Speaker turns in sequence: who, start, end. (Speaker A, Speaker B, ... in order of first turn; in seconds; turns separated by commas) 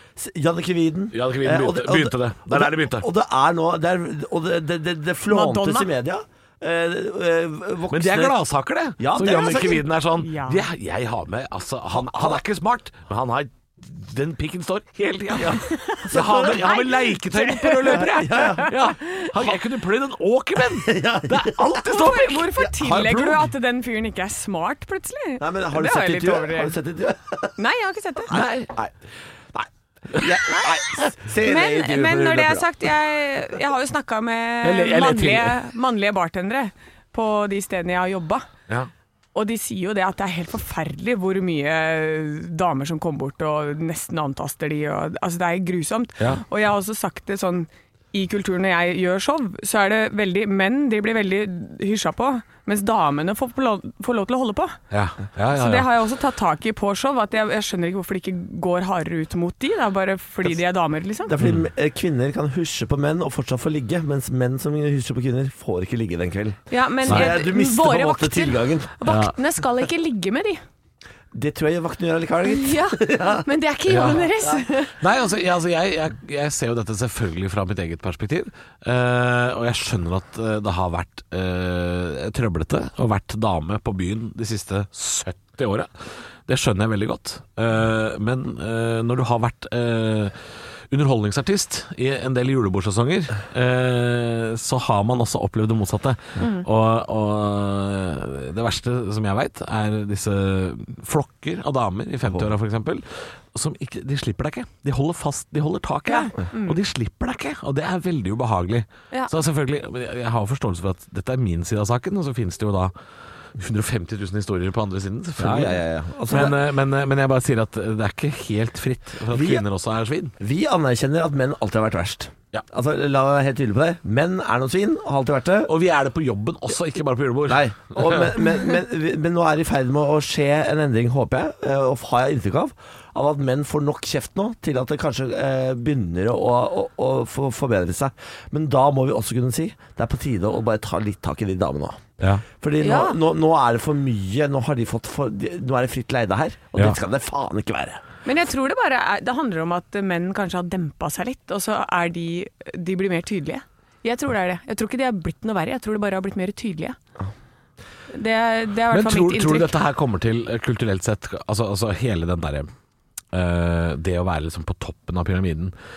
Speaker A: 0.2-8.4, Speaker B: 1.1-3.1, Speaker C: 5.3-5.9, Speaker B: 7.9-23.4, Speaker A: 9.0-9.8, Speaker C: 10.2-10.6, Speaker A: 11.9-12.4, Speaker A: 15.3-16.7, Speaker C: 15.6-19.3, Speaker A: 17.8-18.8, Speaker A: 20.7-21.7, Speaker C: 21.8-26.7, Speaker A: 22.6-23.0, Speaker A: 25.4-27.6, Speaker C: 27.6-28.3, Speaker A: 28.3-28.6, Speaker B: 28.3-28.9, Speaker B: 30.1-31.0, Speaker A: 30.1-32.7, Speaker C: 31.4-38.5, Speaker B: 34.6-35.6, Speaker C: 39.3-54.8, Speaker B: 54.9-55.9, Speaker C: 55.5-61.4, Speaker A: 61.2-69.1, Speaker B: 61.4-61.6, Speaker C: 66.7-70.6, Speaker B: 67.1-67.4, Speaker B: 69.0-69.3, Speaker A: 71.3-73.5, Speaker C: 72.4-74.9, Speaker B: 73.9-74.3, Speaker B: 75.0-85.9, Speaker B: 86.5-90.3, Speaker B: 90.9-112.9, Speaker C: 106.1-106.8, Speaker B: 113.5-120.3, Speaker A: 115.4-116.6, Speaker A: 119.3-119.6, Speaker A: 120.4-125.7, Speaker B: 125.7-128.3, Speaker A: 127.5-148.0, Speaker C: 142.8-143.2, Speaker C: 148.2-157.0, Speaker C: 158.1-159.7, Speaker B: 158.9-162.7, Speaker B: 163.3-165.7